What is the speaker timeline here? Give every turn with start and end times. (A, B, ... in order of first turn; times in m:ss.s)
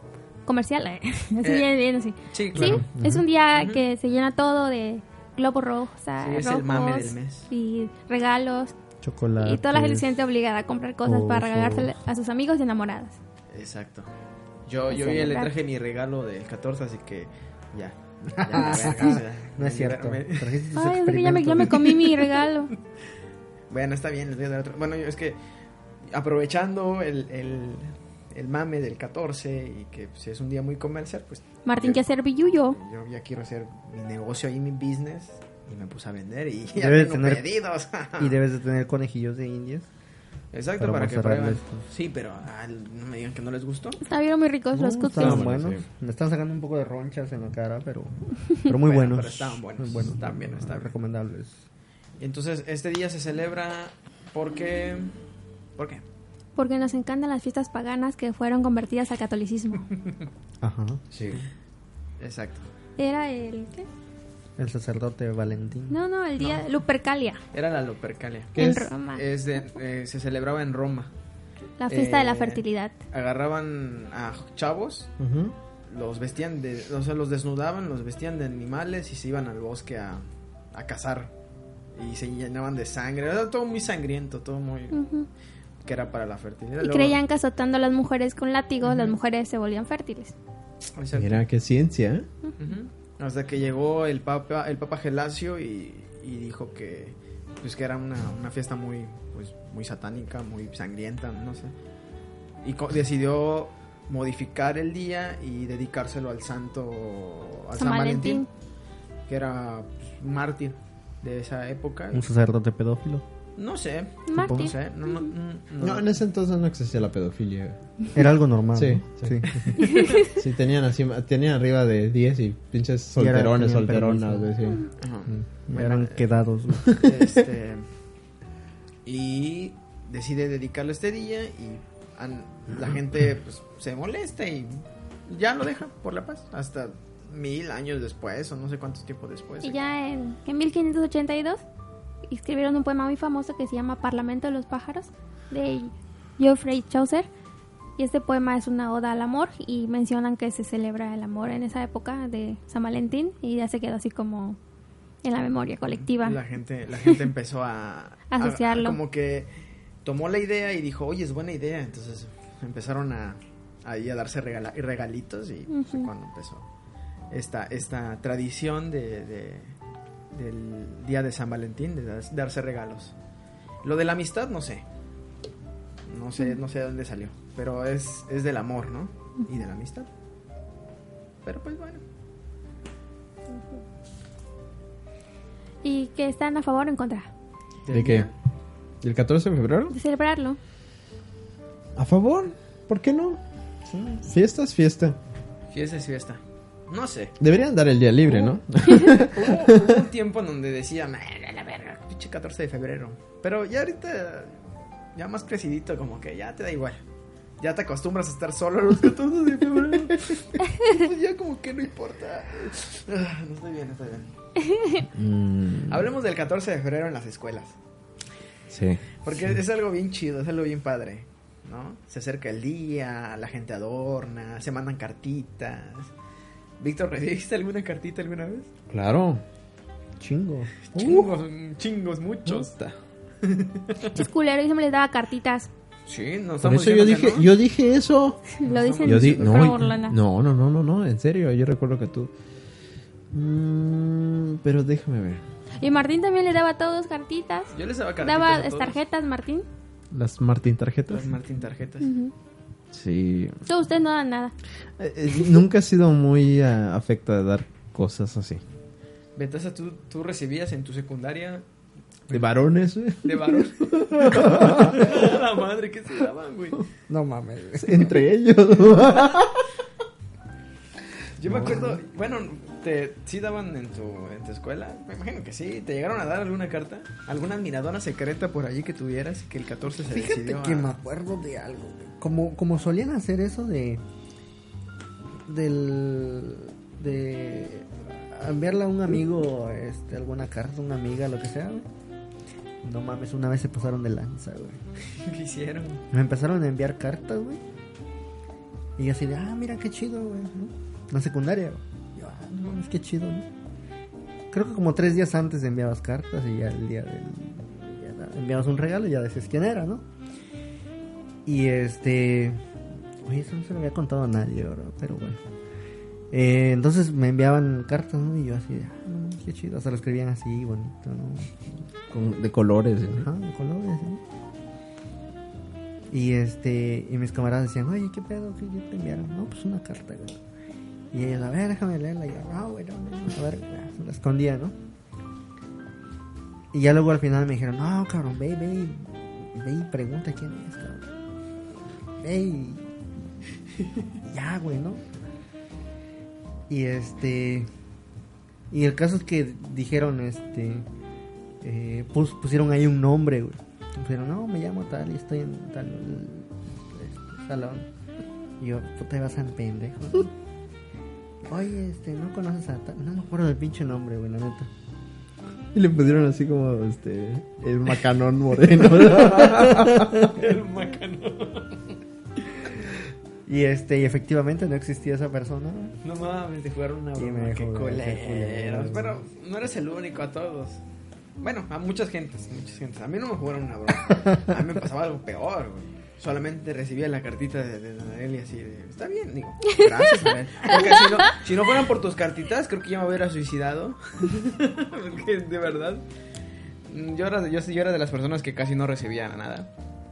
0:00.5-0:08.7 A
0:01.4-0:01.7 B
0:02.2-0:02.8 B
0:02.6-0:03.2 C
0:03.5-0:03.8 B
0:06.2-0:07.5 B
0:09.0-0:10.1 C
0:09.4-0:13.2 A
0:11.0-0:11.9 C
0:13.5-0:14.1 B
0:14.7-0:20.6 B
0:14.9-0:15.5 A
0:18.4-0:22.0 C
0:20.7-0:22.7 A
0:23.7-0:25.4 B
0:26.1-0:32.0 B
0:31.6-0:32.8 A
0:32.7-0:38.4 B
0:36.8-0:37.4 C
0:38.2-0:39.9 C
0:40.5-0:44.0 B
0:40.8-0:41.8 C
0:44.0-0:45.5 A
0:44.7-0:51.6 C
0:45.2-0:45.8 D
0:48.8-0:50.9 B
0:52.2-0:55.1 B
0:55.8-0:56.0 B
0:56.6-0:59.9 A
1:00.6-1:01.0 C
1:01.1-1:01.4 D
1:02.2-1:02.7 B
1:03.0-1:03.9 A
1:04.6-1:06.0 C
1:05.9-1:07.4 A
1:06.4-1:06.6 B
1:07.5-1:08.6 B
1:08.6-1:08.9 D
1:08.6-1:09.2 A
1:09.1-1:11.1 B
1:11.8-1:13.0 A
1:11.9-1:15.1 B
1:15.2-1:15.6 D
1:15.9-1:21.3 B
1:22.0-1:25.0 B
1:24.9-1:25.3 A
1:25.8-1:27.2 B
1:26.8-1:30.4 A
1:28.8-1:29.2 B
1:31.0-1:31.4 B
1:31.2-1:32.3 D
1:32.6-1:41.7 B
1:42.6-1:48.5 B
1:47.8-1:48.5 A
1:49.3-1:52.3 B
1:52.1-1:53.2 C
1:53.6-1:56.1 B
1:54.3-1:55.3 A
1:54.4-1:54.7 C
1:55.8-1:57.8 D
1:58.1-1:59.8 C
1:58.8-1:59.4 D
1:59.8-2:00.3 A
1:59.8-2:00.2 B
2:00.2-2:04.8 D
2:03.2-2:04.5 C
2:05.0-2:06.3 B
2:05.3-2:07.1 C
2:06.9-2:07.9 B
2:09.0-2:19.8 B
2:19.6-2:21.6 A
2:22.3-2:27.3 A
2:28.0-2:34.6 A
2:35.2-2:36.4 A
2:36.0-2:39.5 B
2:38.3-2:39.0 A
2:40.0-2:46.6 B
2:45.7-2:46.1 A
2:47.3-2:49.7 B
2:50.3-2:53.1 B
2:53.8-2:54.8 B
2:56.1-3:00.1 B
3:01.4-3:02.0 B
3:05.8-3:07.3 A
3:07.8-3:08.3 B
3:07.9-3:08.3 D
3:09.0-3:10.0 D
3:09.9-3:10.6 A
3:12.0-3:13.4 D
3:14.2-3:15.2 D
3:15.7-3:17.4 B
3:17.4-3:20.0 D
3:19.1-3:24.6 B
3:25.2-3:27.0 B
3:27.6-3:34.3 B
3:34.6-3:35.0 A
3:35.1-3:36.1 D
3:35.9-3:37.8 B
3:38.7-3:39.1 D
3:39.2-3:46.1 B
3:46.8-3:48.7 B
3:48.9-3:49.4 D
3:50.2-3:51.3 C
3:50.9-3:52.7 B
3:52.5-3:53.0 D
3:53.4-3:54.2 B
3:54.1-3:55.7 A
3:56.1-3:57.5 B
3:56.6-3:58.4 D
3:58.6-4:00.2 A
3:58.6-3:59.9 B
3:59.0-4:02.3 D
4:03.3-4:05.4 D
4:05.8-4:09.6 A
4:07.7-4:09.0 B
4:10.1-4:11.3 D
4:11.1-4:12.1 B
4:12.0-4:12.3 A
4:12.9-4:13.6 D
4:13.7-4:14.5 A
4:15.0-4:18.6 D
4:19.4-4:21.6 B
4:22.3-4:25.2 D
4:23.2-4:26.8 B
4:27.1-4:28.2 C
4:27.8-4:29.7 D
4:31.4-4:40.9 B
4:31.5-4:32.0 C
4:40.1-4:44.0 C
4:45.5-4:51.9 C
4:52.8-4:54.8 C
4:55.2-4:56.0 B
4:56.1-4:57.6 C
4:59.0-5:03.5 C
5:04.5-5:10.0 C
5:11.5-5:12.6 C
5:13.2-5:15.4 C
5:16.3-5:21.7 C
5:22.1-5:23.3 D
5:23.1-5:24.2 C
5:26.1-5:30.4 C
5:31.1-5:34.8 C
5:36.7-5:41.1 C
5:42.2-5:42.9 C
5:44.2-5:45.1 C
5:46.7-5:47.7 C
5:48.7-5:50.9 C
5:51.6-5:57.9 C
5:58.6-6:00.3 C
6:01.5-6:04.7 C
6:05.7-6:10.4 D
6:09.4-6:12.0 B
6:13.5-6:16.0 C
6:16.0-6:20.8 B
6:17.2-6:19.2 C
6:21.4-6:36.0 B
6:36.9-6:39.7 B